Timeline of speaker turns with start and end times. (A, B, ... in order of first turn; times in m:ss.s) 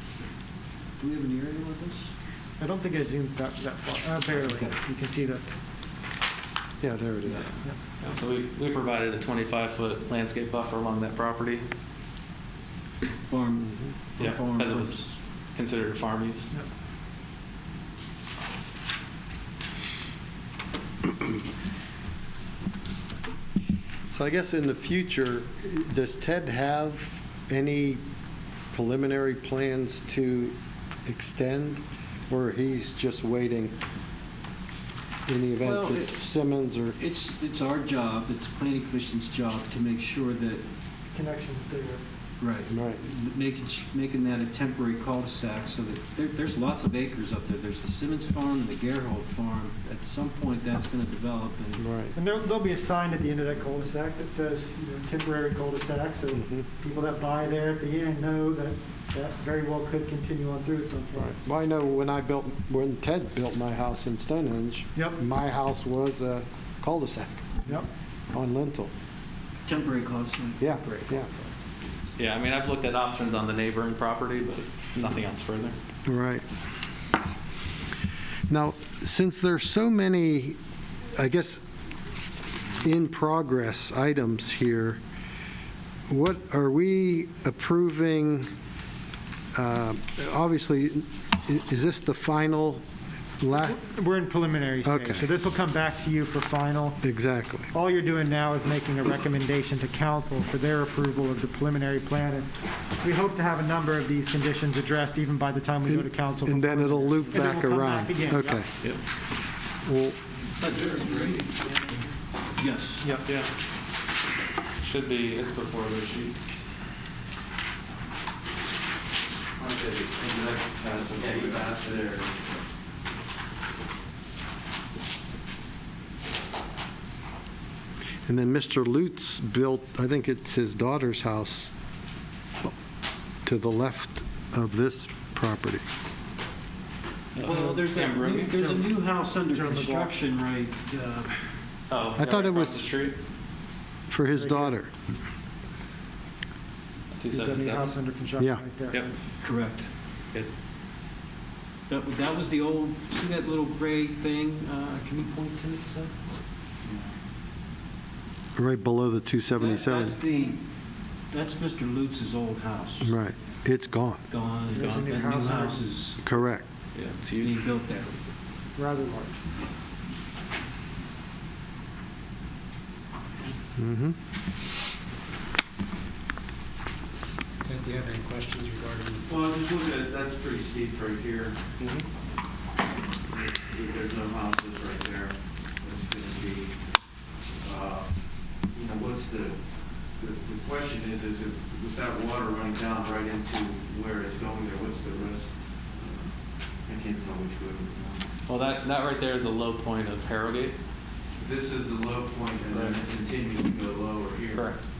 0:01.0-0:02.1 A
0:02.6-0:05.4 B
0:04.3-0:04.8 A
0:06.8-0:07.5 C
0:08.0-0:11.6 D
0:13.3-0:15.1 A
0:14.2-0:15.0 D
0:15.5-0:16.5 D
0:24.1-0:28.0 C
0:28.7-0:30.5 C
0:31.0-0:33.7 C
0:35.3-0:37.0 C
0:35.6-0:36.2 A
0:37.0-0:40.6 A
0:41.1-0:42.0 B
0:42.4-0:51.8 A
0:42.7-0:43.0 C
0:51.8-0:52.2 C
0:52.2-1:01.3 B
0:56.3-0:56.7 C
1:01.2-1:07.4 C
1:08.3-1:08.9 C
1:09.6-1:11.5 A
1:10.6-1:11.3 C
1:12.2-1:15.7 D
1:16.0-1:16.4 C
1:18.5-1:20.6 C
1:21.1-1:21.6 C
1:22.8-1:25.0 C
1:26.1-1:28.5 C
1:29.5-1:32.8 C
1:33.4-1:33.9 C
1:33.7-1:37.0 B
1:34.8-1:35.3 C
1:37.0-1:37.7 C
1:37.7-1:48.6 B
1:45.8-1:48.7 C
1:49.8-1:50.2 C
1:50.6-1:51.8 A
1:52.6-1:53.0 A
1:54.8-1:56.4 D
1:59.6-2:01.8 D
2:00.3-2:02.3 E
2:08.3-2:11.7 C
2:13.4-2:15.8 C
2:17.4-2:18.5 D
2:17.4-2:21.4 A
2:18.5-2:18.8 B
2:19.5-2:20.1 B
2:21.9-2:23.2 D
2:22.2-2:22.9 C
2:24.1-2:24.9 C
2:24.4-2:24.7 B
2:27.2-2:27.9 D
2:27.3-2:29.1 B
2:28.4-2:28.6 C
2:29.4-2:29.9 A
2:31.9-2:36.2 A
2:38.6-2:40.2 C
2:39.6-2:40.6 A
2:41.3-2:43.1 A
2:43.0-2:44.2 C
2:44.3-2:46.2 A
2:44.8-2:45.8 B
2:46.2-2:46.6 C
2:46.9-2:47.5 D
2:47.4-2:48.3 A
2:48.8-2:49.4 B
2:53.8-2:54.2 C
2:57.6-2:59.7 F
2:59.3-3:01.6 E
3:01.8-3:02.0 D
3:03.3-3:06.7 E
3:07.6-3:08.1 E
3:08.7-3:09.6 E
3:10.2-3:16.3 E
3:16.8-3:18.3 E
3:18.5-3:20.8 D
3:21.4-3:24.7 E
3:22.7-3:23.1 D
3:24.5-3:24.8 D